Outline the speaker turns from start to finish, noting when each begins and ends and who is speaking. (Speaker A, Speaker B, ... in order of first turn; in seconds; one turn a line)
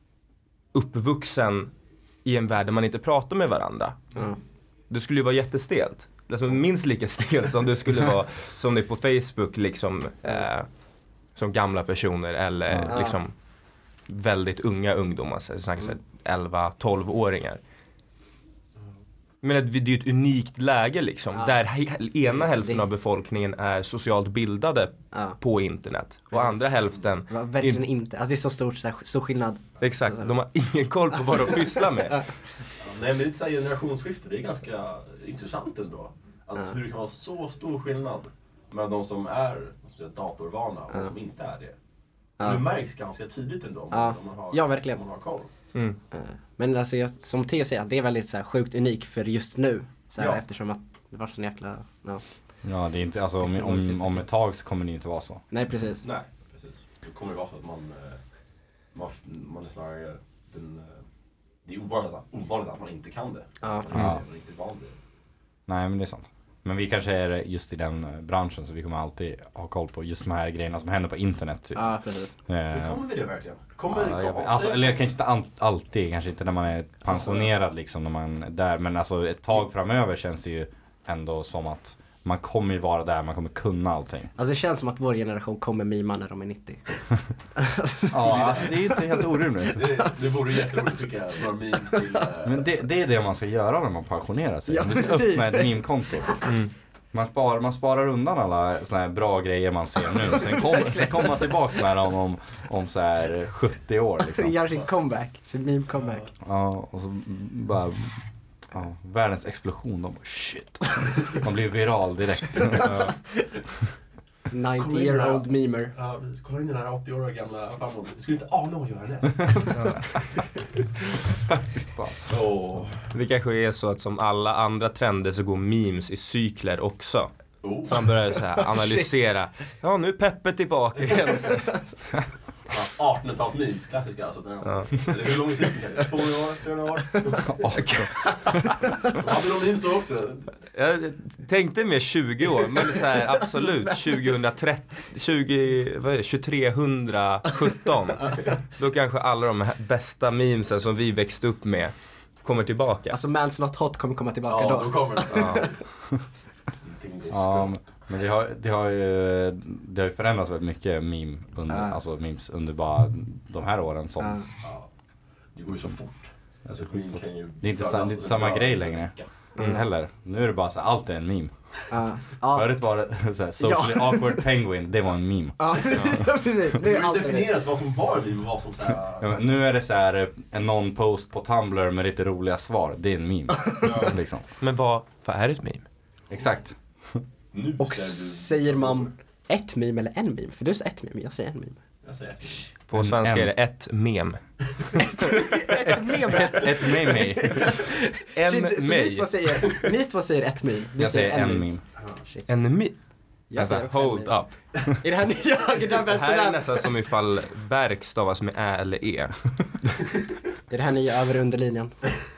Speaker A: 0.7-4.2
Speaker A: 4.9-17.6
Speaker B: 12.7-13.1
Speaker C: 12.9-13.2
Speaker A: 19.4-27.8
Speaker C: 21.3-22.8
Speaker C: 25.1-25.4
Speaker C: 26.3-30.3
Speaker A: 29.8-32.5
Speaker D: 32.8-45.5
Speaker C: 43.9-45.0
Speaker C: 45.6-52.2
Speaker B: 52.6-55.5
Speaker C: 53.6-54.2
Speaker C: 55.5-56.0
Speaker D: 56.0-64.9
Speaker C: 63.6-63.9
Speaker B: 63.9-64.2
Speaker B: 65.7-73.0
Speaker C: 71.8-72.3
Speaker D: 72.7-75.0
Speaker B: 73.9-84.3
Speaker C: 77.1-77.4
Speaker C: 84.4-89.5
Speaker B: 88.1-89.8
Speaker D: 88.2-88.7
Speaker D: 89.8-92.7
Speaker B: 92.5-104.5
Speaker C: 94.7-96.4
Speaker A: 96.5-96.7
Speaker C: 100.6-101.6
Speaker C: 104.3-106.3
Speaker D: 106.0-106.3
Speaker B: 106.4-113.2
Speaker C: 114.5-115.9
Speaker D: 114.8-120.0
Speaker B: 121.8-122.2
Speaker D: 122.3-123.1
Speaker A: 123.1-132.0
Speaker D: 127.6-128.1
Speaker C: 128.7-129.1
Speaker C: 131.2-131.8
Speaker D: 132.7-137.9
Speaker A: 134.7-135.3
Speaker B: 137.6-138.7
Speaker A: 137.8-138.2
Speaker D: 139.1-140.6
Speaker A: 140.7-153.2
Speaker C: 143.6-144.0
Speaker C: 153.1-155.7
Speaker D: 154.5-155.9
Speaker A: 155.3-155.6
Speaker D: 156.8-157.9
Speaker B: 157.3-164.4
Speaker C: 161.7-162.0
Speaker C: 164.2-164.5
Speaker D: 164.6-169.3
Speaker B: 166.7-176.2
Speaker C: 169.6-169.8
Speaker C: 171.9-174.5
Speaker C: 175.6-177.5
Speaker D: 176.8-179.3
Speaker B: 179.2-184.4
Speaker D: 183.8-184.2
Speaker A: 184.0-185.9
Speaker B: 186.3-187.2
Speaker D: 187.5-189.1
Speaker C: 187.8-192.0
Speaker D: 192.0-192.7
Speaker A: 192.9-195.2
Speaker B: 192.9-193.5
Speaker C: 195.3-206.9
Speaker B: 195.8-197.8
Speaker A: 198.3-199.7
Speaker B: 201.0-201.8
Speaker A: 202.5-204.9
Speaker A: 206.1-209.8
Speaker C: 210.7-212.0